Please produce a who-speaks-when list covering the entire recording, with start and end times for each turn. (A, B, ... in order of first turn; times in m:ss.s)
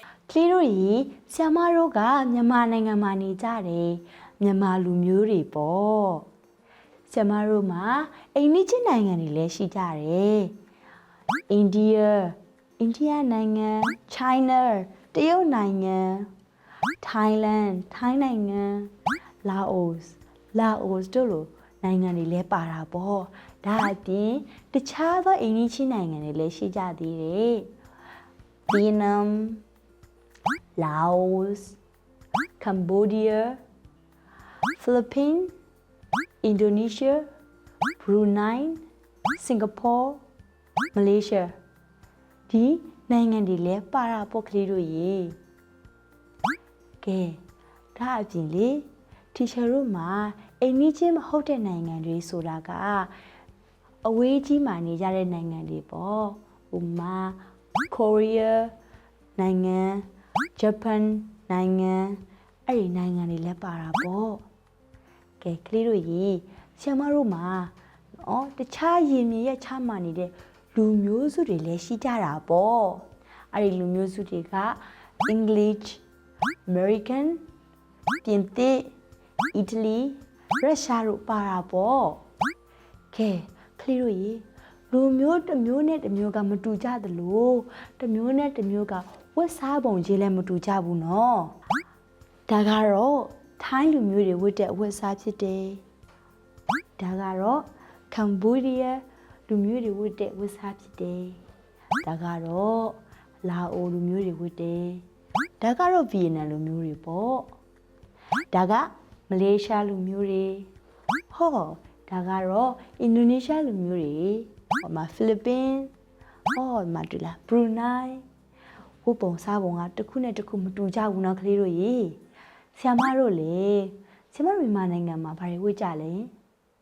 0:00.3-0:06.3 A
0:07.1-0:10.5 A
0:11.5-0:16.3 A
0:17.0-0:18.9 A
0:19.4-0:27.7 A
0:28.7-0:29.6 A
0:30.8-0:31.8 A
0:32.6-0:33.6 A
0:34.8-0:35.5 A
0:36.4-0:37.2 A
0:38.0-0:38.8 A
0:39.4-0:40.2 A
0:40.9-0:41.5 A
0:42.5-0:45.4 A
0:47.0-0:47.4 A
0:47.9-0:53.1 A
0:54.0-0:58.7 A
0:59.4-1:04.4 A
1:05.4-1:16.0 A
1:16.6-1:17.4 A
1:18.2-1:18.9 A
1:19.5-1:22.2 A
1:23.1-1:31.5 A
1:32.5-1:35.8 A
1:37.0-1:41.4 A
1:42.0-1:45.0 A
1:45.6-1:47.5 A
1:48.5-1:50.7 A
1:51.3-1:55.9 A
1:56.5-1:58.2 A
1:59.0-2:02.2 A
2:02.7-2:06.3 A